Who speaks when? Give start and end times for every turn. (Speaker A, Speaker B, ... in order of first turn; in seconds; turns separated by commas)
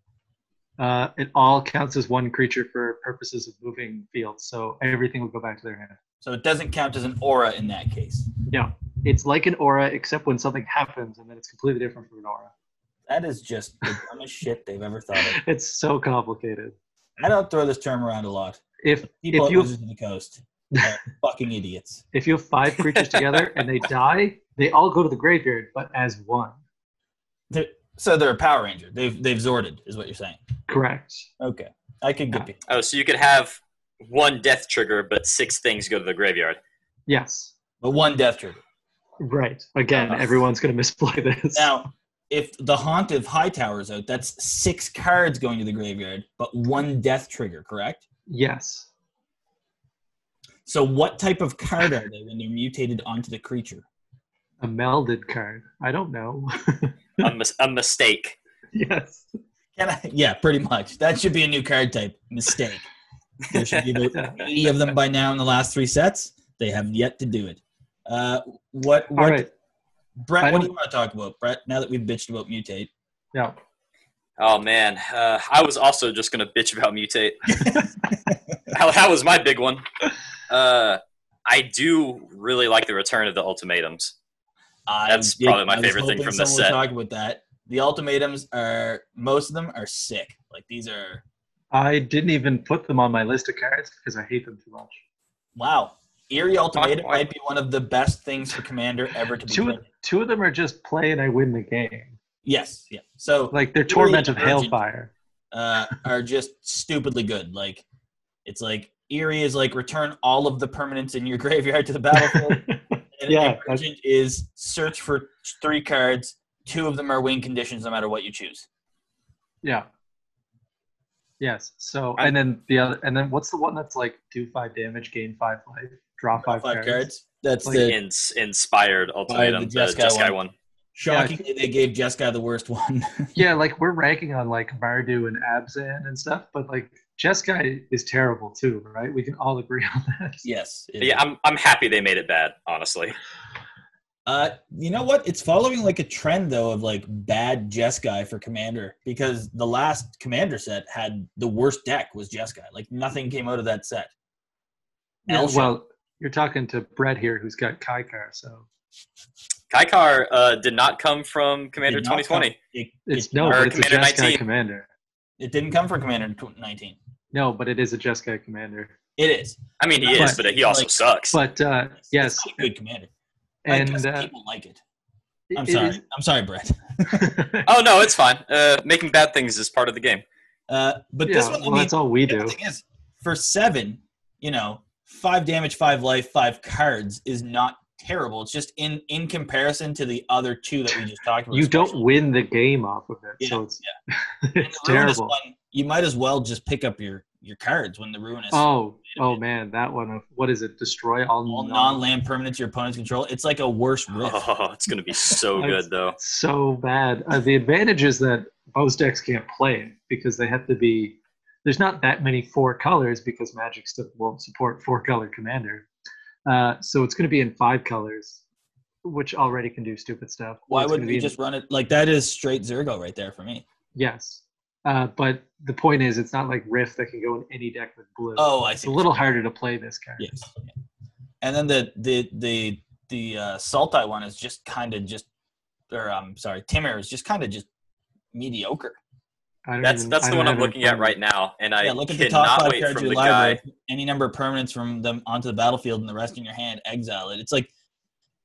Speaker A: 0.8-6.0, Speaker B: 6.2-8.3, Speaker A: 8.5-12.5, Speaker B: 13.1-15.4, Speaker A: 15.2-16.7, Speaker B: 17.2-18.6, Speaker A: 18.8-19.7, Speaker B: 19.1-22.0, Speaker A: 22.1-26.6, Speaker C: 22.8-23.4, Speaker B: 27.5-30.4, Speaker A: 30.7-31.3, Speaker B: 31.4-32.6, Speaker C: 32.7-36.6, Speaker A: 37.1-37.5, Speaker B: 37.8-38.6, Speaker A: 39.2-41.7, Speaker C: 39.9-40.4, Speaker B: 41.5-48.0, Speaker A: 48.3-48.9, Speaker B: 50.6-53.8, Speaker A: 54.6-57.3, Speaker C: 57.2-58.4, Speaker A: 58.7-59.3, Speaker B: 59.8-62.9, Speaker B: 63.5-69.5, Speaker A: 64.0-64.5, Speaker A: 69.1-69.5, Speaker B: 70.2-72.9, Speaker A: 70.4-70.7, Speaker C: 74.4-77.7, Speaker B: 77.5-77.8, Speaker C: 78.7-79.8, Speaker C: 80.5-84.1, Speaker B: 84.9-91.2, Speaker C: 85.1-86.7, Speaker A: 91.7-95.0, Speaker B: 95.5-99.8, Speaker C: 96.8-97.3, Speaker A: 99.5-102.2, Speaker B: 102.4-104.8, Speaker A: 103.5-105.1, Speaker B: 105.5-107.8, Speaker B: 108.4-112.6, Speaker A: 112.1-113.8, Speaker B: 113.2-118.7, Speaker A: 121.4-127.1, Speaker B: 126.4-128.0, Speaker A: 127.6-127.9, Speaker C: 127.8-130.5, Speaker B: 129.3-130.4, Speaker B: 130.9-133.3, Speaker A: 131.1-131.4, Speaker A: 133.3-140.4, Speaker B: 140.4-141.2, Speaker C: 141.0-143.1, Speaker B: 144.2-154.1, Speaker A: 155.3-158.7, Speaker B: 155.3-155.8, Speaker C: 159.7-162.6, Speaker B: 161.8-163.8, Speaker A: 163.1-164.9, Speaker C: 163.4-164.4, Speaker B: 165.4-167.0, Speaker A: 167.3-168.9, Speaker B: 169.2-170.9, Speaker C: 169.8-171.3, Speaker A: 170.1-170.4, Speaker A: 171.3-172.7, Speaker B: 172.1-173.1, Speaker A: 173.6-174.3, Speaker B: 173.7-174.8, Speaker A: 175.5-176.0, Speaker B: 175.5-177.3, Speaker A: 177.1-177.7, Speaker C: 177.7-180.2, Speaker B: 180.7-192.0, Speaker A: 181.2-182.6, Speaker A: 191.5-195.3, Speaker B: 193.4-193.9, Speaker B: 194.6-199.4, Speaker A: 198.5-202.0, Speaker B: 201.5-204.4, Speaker C: 204.2-206.2, Speaker A: 205.6-215.9, Speaker A: 216.4-218.4, Speaker A: 219.0-221.3, Speaker B: 220.7-223.6, Speaker A: 223.9-230.4, Speaker B: 228.3-229.2, Speaker B: 230.2-230.7, Speaker B: 231.4-235.2, Speaker B: 235.9-237.7, Speaker B: 238.3-239.0, Speaker A: 239.7-241.1, Speaker C: 239.8-243.6, Speaker B: 241.8-247.7